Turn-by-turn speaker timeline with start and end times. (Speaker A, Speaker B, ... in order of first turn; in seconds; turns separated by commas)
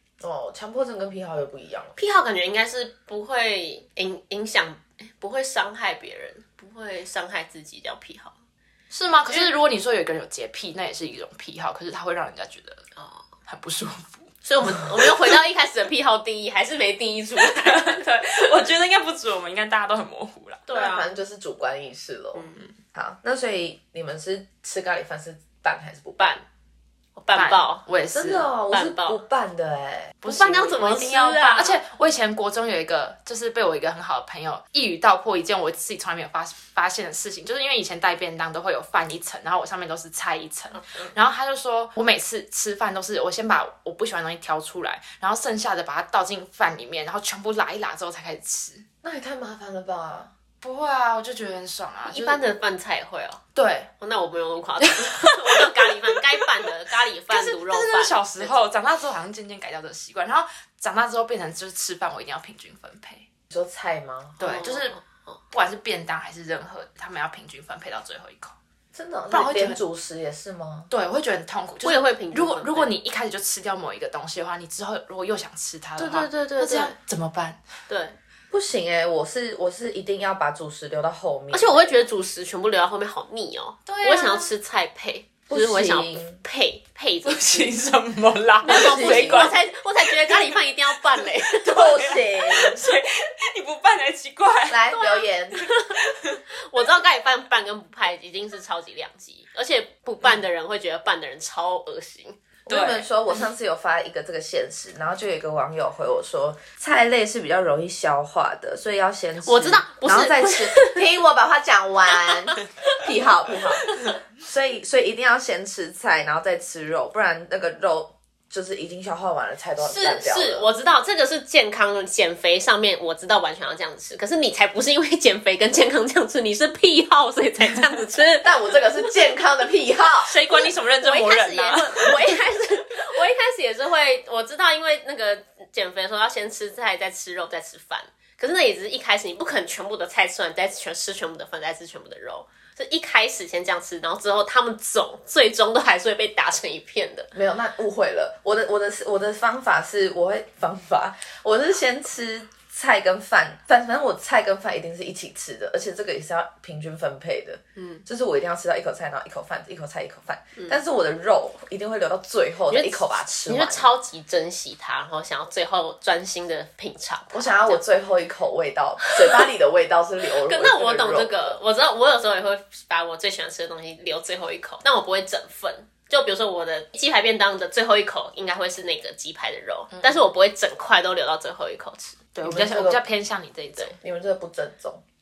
Speaker A: 0.2-1.9, Speaker B: 1.9-8.3, Speaker C: 8.9-12.8, Speaker B: 12.9-13.3, Speaker C: 13.5-14.3, Speaker B: 14.4-18.0, Speaker C: 17.4-20.6, Speaker B: 20.7-21.1, Speaker A: 20.7-26.3, Speaker B: 22.3-22.6, Speaker B: 26.2-26.4, Speaker B: 27.1-27.8, Speaker C: 27.3-28.5, Speaker A: 28.1-30.2, Speaker B: 28.7-29.2, Speaker B: 30.2-31.8, Speaker C: 30.2-48.9, Speaker B: 40.7-41.1, Speaker A: 49.0-50.3, Speaker C: 50.6-52.4, Speaker B: 52.1-53.4, Speaker C: 53.5-53.9, Speaker B: 54.0-58.6, Speaker C: 54.8-56.1, Speaker C: 57.3-63.3, Speaker A: 63.5-64.4, Speaker C: 64.4-65.0, Speaker B: 64.4-65.4, Speaker C: 65.5-68.5, Speaker A: 68.9-70.9, Speaker C: 69.3-69.8, Speaker C: 70.9-77.6, Speaker B: 71.8-72.9, Speaker B: 76.0-76.9, Speaker B: 77.9-78.2, Speaker A: 78.5-82.0, Speaker B: 81.5-87.7, Speaker C: 83.8-84.5, Speaker A: 85.5-86.4, Speaker C: 87.2-90.5, Speaker B: 88.6-92.1, Speaker A: 88.6-89.5, Speaker C: 91.6-94.9, Speaker A: 91.6-92.8, Speaker A: 94.7-95.7, Speaker B: 94.9-96.0, Speaker C: 96.0-96.4, Speaker B: 96.5-102.4, Speaker A: 102.7-120.7, Speaker C: 102.7-103.1, Speaker B: 109.4-111.0, Speaker B: 112.2-113.0, Speaker B: 119.8-129.0, Speaker A: 128.4-130.3, Speaker C: 130.2-132.4, Speaker B: 130.5-147.3, Speaker A: 147.3-163.9, Speaker B: 157.8-158.0, Speaker B: 162.7-167.8, Speaker A: 167.3-171.6, Speaker B: 170.4-182.2, Speaker C: 182.3-184.0, Speaker A: 182.4-183.0, Speaker A: 184.0-185.0